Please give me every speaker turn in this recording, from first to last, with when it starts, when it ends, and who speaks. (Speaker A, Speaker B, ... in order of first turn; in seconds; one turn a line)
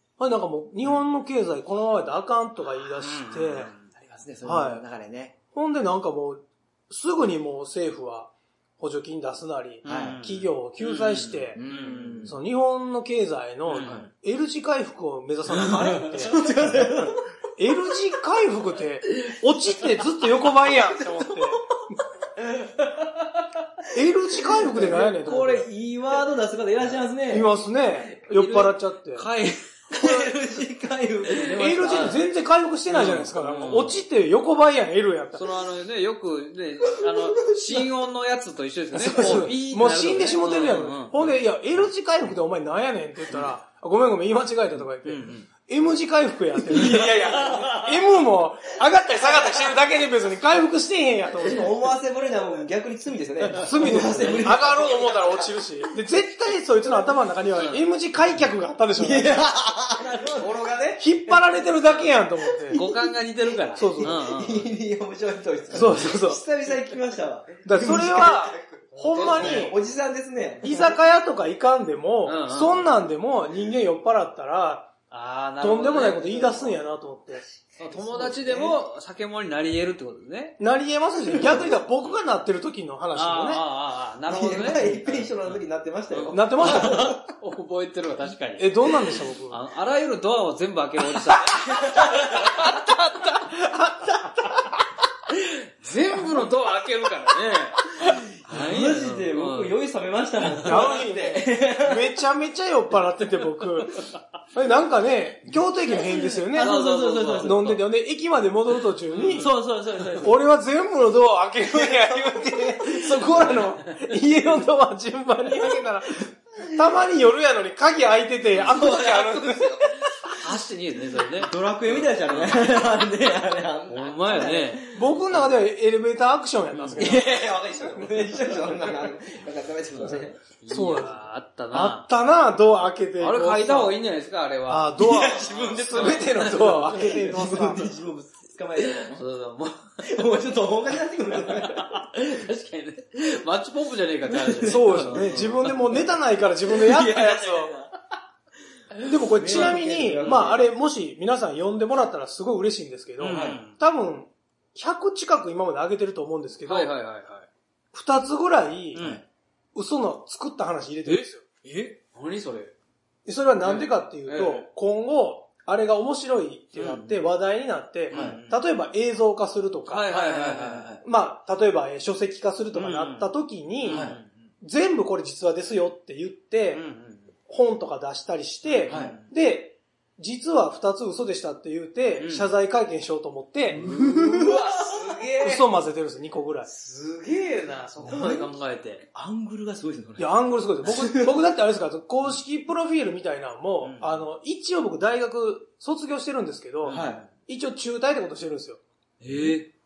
Speaker A: 0.2-3.7
Speaker B: 3.0-3.9
Speaker C: 3.9-5.3
Speaker A: 4.4-4.8
Speaker A: 5.5-11.6
Speaker C: 9.8-10.2
Speaker B: 9.8-12.2
Speaker C: 11.6-12.4
Speaker A: 12.2-21.7
Speaker B: 13.7-14.1
Speaker C: 13.7-14.1
Speaker B: 15.5-16.3
Speaker C: 16.2-17.2
Speaker C: 20.4-21.8
Speaker C: 22.4-23.1
Speaker A: 23.9-25.7
Speaker C: 24.3-27.5
Speaker A: 27.3-29.3
Speaker B: 28.2-30.2
Speaker C: 29.9-32.2
Speaker B: 31.3-32.2
Speaker A: 31.5-35.5
Speaker B: 32.9-34.0
Speaker C: 33.4-33.8
Speaker B: 35.3-41.3
Speaker C: 37.1-37.9
Speaker A: 39.0-51.7
Speaker C: 39.1-39.4
Speaker B: 45.0-45.5
Speaker C: 46.7-47.8
Speaker B: 46.8-47.8
Speaker C: 51.4-55.5
Speaker A: 53.5-59.4
Speaker B: 57.5-57.8
Speaker C: 59.0-61.4
Speaker B: 60.3-61.0
Speaker A: 61.0-62.8
Speaker C: 62.4-63.1
Speaker B: 62.7-64.7
Speaker A: 63.7-64.2
Speaker C: 64.0-70.9
Speaker A: 65.7-66.4
Speaker A: 67.6-69.8
Speaker B: 69.0-69.7
Speaker A: 70.6-74.9
Speaker B: 72.2-72.9
Speaker B: 75.1-76.8
Speaker A: 75.6-77.4
Speaker C: 77.8-78.8
Speaker B: 77.8-80.6
Speaker A: 80.6-83.6
Speaker B: 81.3-81.7
Speaker B: 83.1-92.7
Speaker C: 84.3-87.2
Speaker A: 86.3-87.2
Speaker A: 88.6-89.6
Speaker C: 91.7-92.3
Speaker A: 92.4-94.5
Speaker B: 95.3-99.8
Speaker C: 98.1-102.1
Speaker B: 100.4-100.9
Speaker A: 100.6-104.0
Speaker A: 104.5-106.8
Speaker C: 106.5-107.8
Speaker B: 106.5-107.8
Speaker A: 107.4-109.5
Speaker B: 109.1-109.5
Speaker C: 109.2-110.4
Speaker A: 110.2-120.3
Speaker B: 118.6-122.9
Speaker C: 121.3-125.0
Speaker B: 123.9-125.0
Speaker A: 124.9-128.2
Speaker B: 126.7-127.2
Speaker C: 127.0-130.4
Speaker A: 130.0-131.2
Speaker B: 130.6-132.1
Speaker A: 131.7-134.0
Speaker B: 133.2-136.9
Speaker A: 134.7-137.9
Speaker C: 135.0-139.2
Speaker B: 138.8-140.2
Speaker C: 140.0-142.1
Speaker B: 141.3-145.7
Speaker C: 144.3-146.0
Speaker A: 144.6-147.7
Speaker C: 146.6-147.9
Speaker A: 149.1-156.9
Speaker C: 149.3-150.7
Speaker B: 153.2-153.8
Speaker C: 153.2-153.6
Speaker B: 156.6-157.5
Speaker A: 157.9-159.0
Speaker B: 158.9-159.2
Speaker C: 159.0-159.2
Speaker A: 159.7-161.4
Speaker C: 161.6-161.9
Speaker B: 162.0-162.7
Speaker A: 163.2-170.4
Speaker B: 163.6-164.7
Speaker B: 166.7-167.2
Speaker B: 168.1-168.5
Speaker C: 168.1-168.5
Speaker B: 169.9-170.9
Speaker C: 170.1-171.0
Speaker A: 171.0-176.8
Speaker B: 172.7-174.5
Speaker C: 173.9-174.2
Speaker B: 176.7-177.3
Speaker A: 177.5-183.8
Speaker B: 178.6-179.3
Speaker C: 178.9-179.2
Speaker B: 182.2-182.5
Speaker B: 183.7-185.7
Speaker C: 183.8-185.0
Speaker A: 185.4-186.7
Speaker B: 186.7-189.1
Speaker C: 188.0-188.6
Speaker C: 189.1-191.3
Speaker A: 190.2-198.8
Speaker B: 193.8-194.2
Speaker B: 196.8-197.3
Speaker C: 196.9-197.3
Speaker B: 199.2-199.7